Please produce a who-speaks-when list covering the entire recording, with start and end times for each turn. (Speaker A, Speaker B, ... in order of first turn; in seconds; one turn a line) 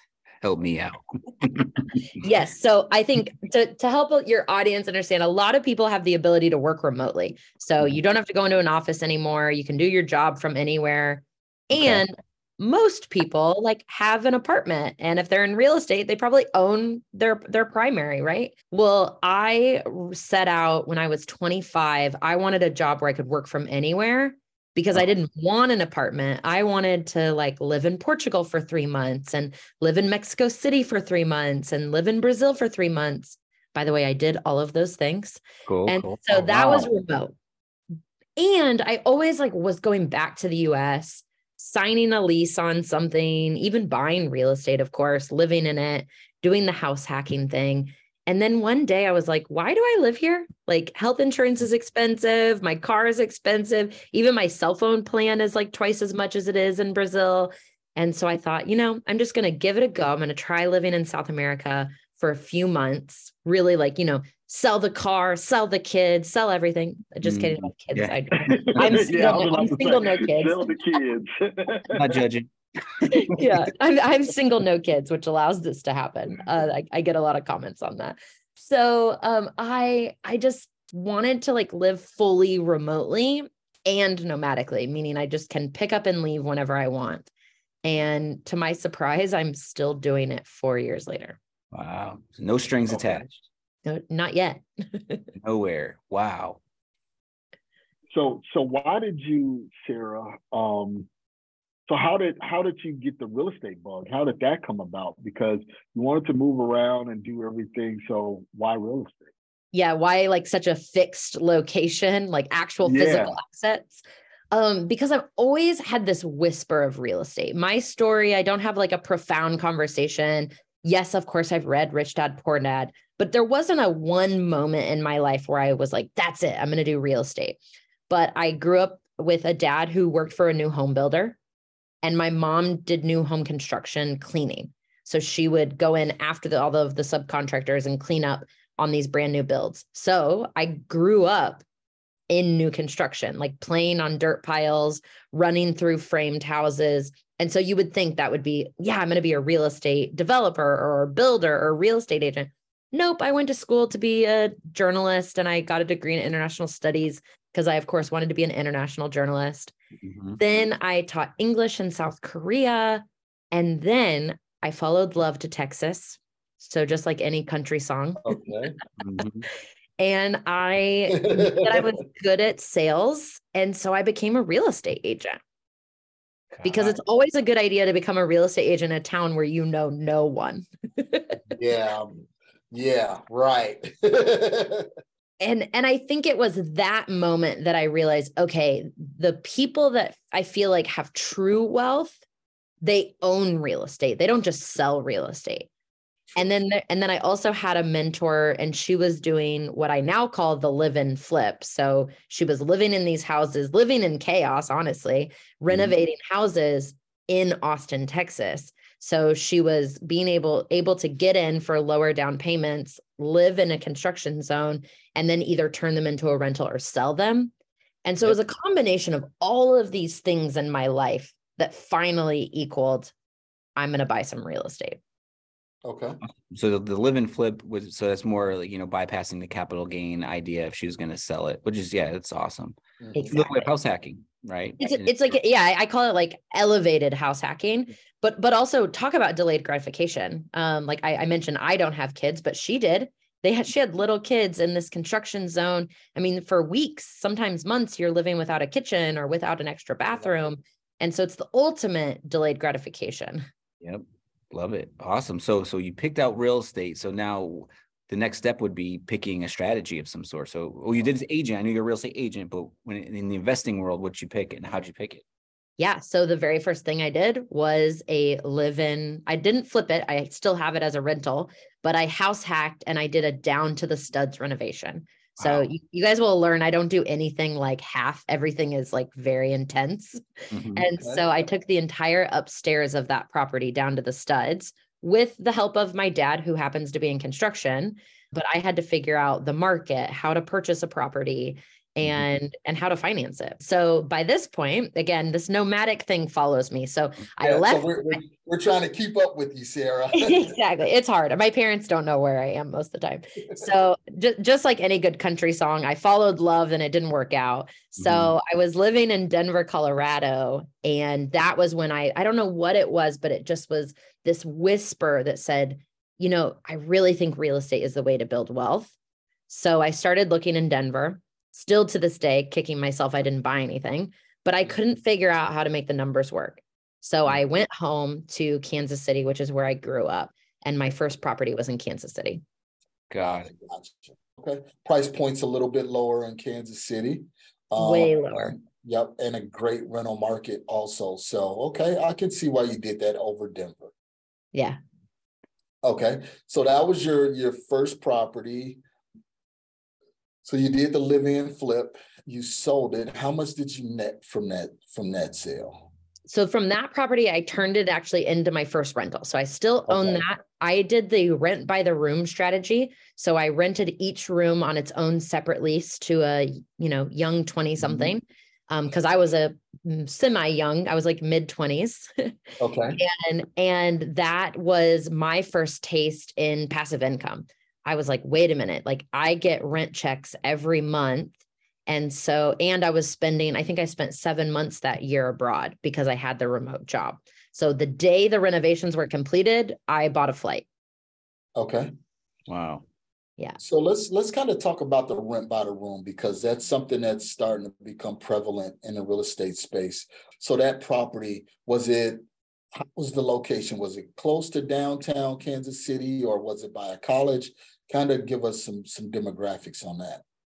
Speaker A: 0.4-1.9
Speaker B: 2.1-37.4
Speaker A: 11.7-12.0
Speaker A: 35.6-36.9
Speaker B: 38.4-70.7
Speaker A: 67.2-69.1
Speaker C: 68.8-71.8
Speaker A: 71.9-73.1
Speaker B: 73.0-87.3
Speaker B: 87.8-91.4
Speaker A: 91.7-93.5
Speaker B: 93.8-95.2
Speaker A: 95.4-96.6
Speaker C: 98.2-101.1
Speaker C: 101.9-109.2
Speaker D: 104.9-105.4
Speaker B: 109.7-127.6
Speaker B: 128.1-131.4
Speaker B: 132.0-141.6
Speaker B: 142.3-159.7
Speaker A: 160.0-160.4
Speaker B: 160.4-168.4
Speaker D: 168.2-168.8
Speaker A: 169.0-169.4
Speaker B: 170.0-175.4
Speaker D: 171.2-171.9
Speaker B: 176.6-181.4
Speaker D: 181.5-184.9
Speaker B: 185.4-192.2
Speaker B: 192.8-195.7
Speaker B: 196.3-217.5
Speaker B: 218.0-223.1
Speaker B: 223.8-225.0
Speaker D: 225.8-226.2
Speaker A: 226.5-232.8
Speaker D: 233.0-233.3
Speaker B: 233.1-233.7
Speaker A: 233.3-235.2
Speaker B: 234.8-253.5
Speaker A: 253.8-265.2
Speaker B: 265.8-280.2
Speaker A: 280.5-280.8
Speaker B: 280.8-298.2
Speaker D: 280.9-281.3
Speaker D: 297.4-300.5
Speaker B: 300.1-318.9
Speaker A: 308.0-308.3
Speaker B: 319.5-332.4
Speaker A: 333.1-333.5
Speaker D: 333.2-343.9
Speaker B: 337.8-338.5
Speaker D: 345.8-348.8
Speaker D: 350.4-355.8
Speaker B: 356.3-372.3
Speaker D: 359.9-360.2
Speaker D: 367.8-368.1
Speaker D: 372.6-373.0
Speaker B: 372.9-381.3
Speaker B: 381.9-390.6
Speaker D: 391.6-391.9
Speaker A: 392.5-392.8
Speaker D: 393.6-402.2
Speaker D: 402.8-410.2